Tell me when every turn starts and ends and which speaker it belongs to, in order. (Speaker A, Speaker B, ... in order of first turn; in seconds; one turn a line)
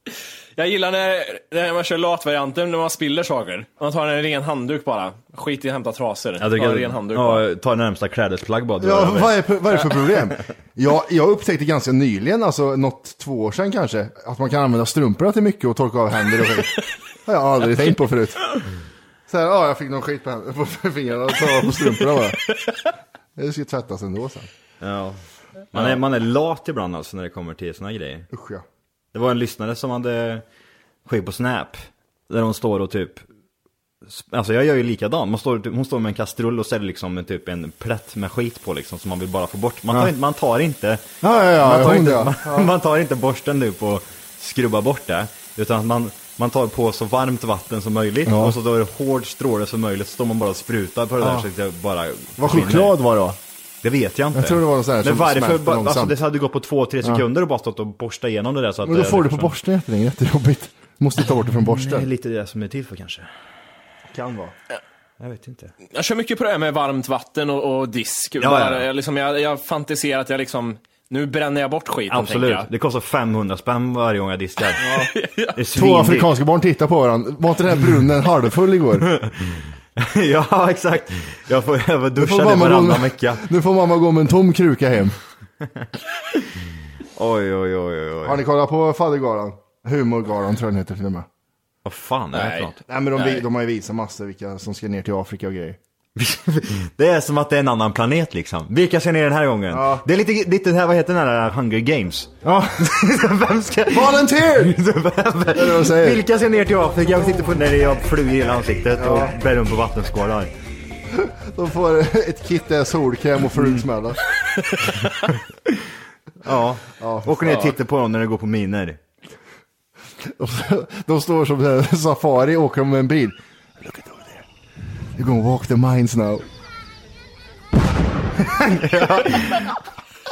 Speaker A: 0.6-7.5
Speaker B: 6.4-10.3
Speaker C: 8.8-18.4
Speaker C: 19.3-22.4
Speaker C: 23.4-24.5
Speaker B: 24.8-25.2
Speaker B: 25.7-28.3
Speaker C: 28.3-28.6
Speaker B: 29.1-30.4
Speaker B: 31.1-33.2
Speaker B: 34.0-41.0
Speaker C: 39.9-40.1
Speaker C: 41.2-42.7
Speaker B: 41.6-53.0
Speaker C: 48.2-48.5
Speaker C: 51.2-51.5
Speaker C: 52.4-53.4
Speaker B: 53.8-59.5
Speaker C: 54.3-56.2
Speaker C: 58.8-62.0
Speaker B: 61.7-63.3
Speaker C: 64.1-64.5
Speaker B: 65.2-65.7
Speaker A: 65.9-72.7
Speaker B: 68.4-68.8
Speaker B: 72.1-74.8
Speaker C: 74.8-75.1
Speaker A: 74.9-75.6
Speaker B: 75.5-76.3
Speaker C: 75.7-79.1
Speaker B: 79.2-83.4
Speaker C: 82.2-85.1
Speaker B: 87.1-88.4
Speaker C: 88.2-91.3
Speaker B: 91.8-92.8
Speaker A: 92.3-93.5
Speaker C: 92.9-95.8
Speaker B: 96.2-110.5
Speaker C: 99.7-100.0
Speaker C: 102.4-102.9
Speaker C: 103.9-104.8
Speaker C: 105.5-106.2
Speaker C: 107.2-107.5
Speaker C: 109.0-109.3
Speaker C: 111.1-114.2
Speaker B: 116.4-119.0
Speaker C: 117.0-117.7
Speaker A: 117.4-117.7
Speaker C: 120.2-124.4
Speaker C: 125.2-126.5
Speaker B: 128.5-129.7